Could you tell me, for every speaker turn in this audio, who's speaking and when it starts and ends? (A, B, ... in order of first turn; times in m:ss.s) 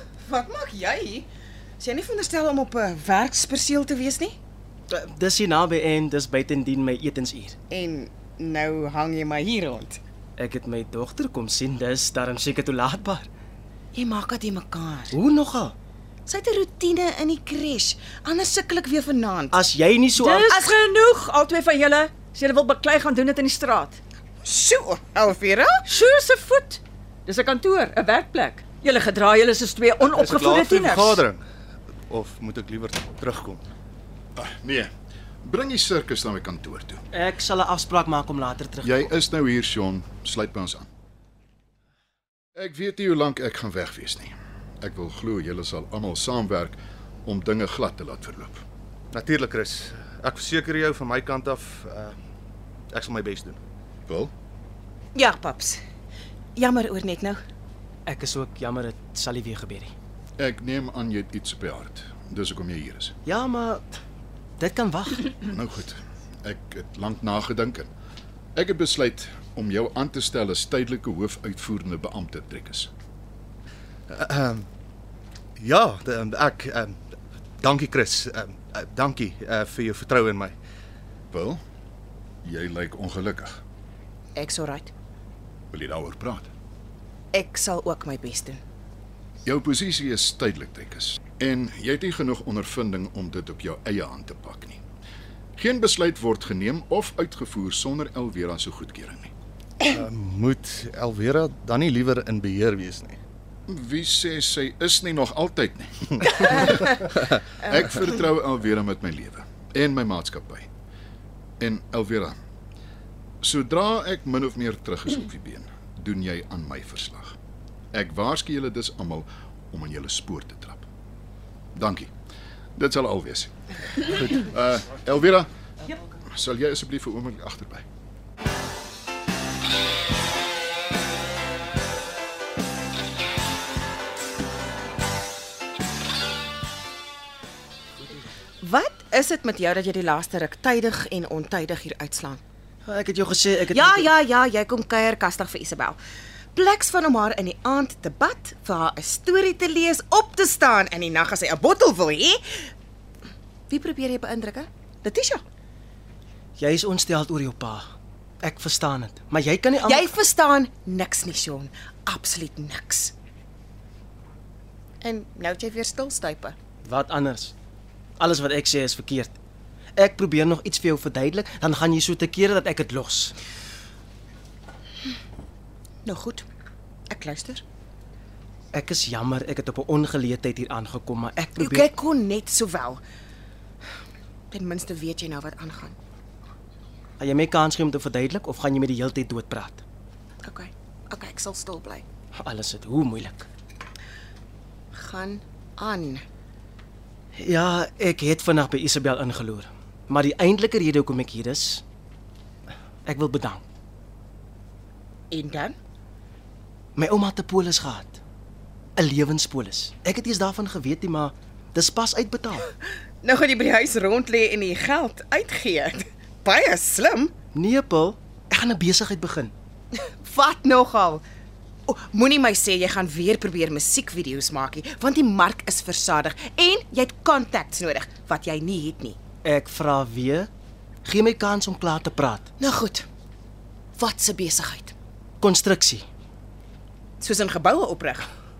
0:00.2-0:01.3 A
0:01.8-0:04.4 A
0:04.9-0:07.5 B
0:07.7-0:10.0 A
0:10.4-0:13.3 B
0:13.9-0:15.2 A
0:15.1-0:15.7 B
0:16.3-0:19.6 A
0:19.5-0:20.5 B
0:20.2-0:24.0 C
0:20.5-0:20.8 A
0:24.4-0:25.8 A
0:25.8-0:31.2 C
0:30.0-0:31.4 B
0:32.1-0:32.8 D
0:32.3-0:33.6 B
0:34.4-0:34.9 E
0:35.4-0:37.0 E
0:37.1-0:39.0 B
0:38.8-0:40.9 E
0:42.6-0:48.6 E
0:49.1-0:50.9 B
0:49.2-0:49.7 D
0:50.3-0:51.6 D
0:51.4-0:52.0 B
0:52.9-0:53.5 B
0:53.0-0:53.4 D
0:54.1-0:54.3 E
0:55.1-0:55.8 A
0:56.6-0:57.4 A
0:58.1-0:59.9 B
1:00.4-1:03.2 E
1:03.2-1:03.8 B
1:04.6-1:05.2 B
1:05.3-1:07.9 E
1:08.6-1:12.9 E
1:14.1-1:14.5 B
1:15.6-1:16.8 B
1:15.7-1:16.9 D
1:17.6-1:20.4 B
1:17.7-1:20.5 D
1:21.3-1:21.6 E
1:22.4-1:23.6 E
1:24.4-1:24.9 A
1:25.7-1:26.5 E
1:27.3-1:28.6 A
1:29.4-1:34.8 E
1:35.6-1:39.3 E
1:39.9-1:41.1 B
1:40.2-1:43.1 D
1:43.7-1:50.7 E
1:51.6-1:52.4 E
1:53.4-1:57.4 E
1:57.9-2:00.9 E
2:01.7-2:02.1 E
2:02.8-2:05.5 E
2:06.3-2:07.8 E
2:18.6-2:22.4 A
2:22.8-2:24.1 B
2:23.7-2:26.0 A
2:26.5-2:32.7 A
2:33.7-2:35.4 A
2:36.6-2:37.8 B
2:38.4-2:40.0 B
2:39.8-2:43.1 A
2:45.0-2:46.6 A
2:46.8-2:47.5 B
2:48.2-2:49.4 B
2:50.0-2:53.3 B
2:56.0-2:56.4 A
2:57.1-2:57.6 A
2:58.7-3:01.9 B
3:01.6-3:03.0 A
3:04.5-3:06.0 A
3:07.2-3:09.8 B
3:10.4-3:12.0 A
3:12.4-3:13.4 B
3:14.9-3:16.2 A
3:17.4-3:21.8 B
3:23.1-3:23.6 B
3:25.3-3:25.8 A
3:27.0-3:28.2 B
3:29.0-3:32.7 B
3:33.2-3:37.3 A
3:37.7-3:39.5 B
3:39.9-3:41.2 A
3:41.9-3:49.2 A
3:49.4-3:50.5 B
3:51.0-3:52.4 B
3:52.6-3:53.0 A
3:54.0-3:54.9 A
3:55.4-3:56.0 B
3:57.2-3:58.3 A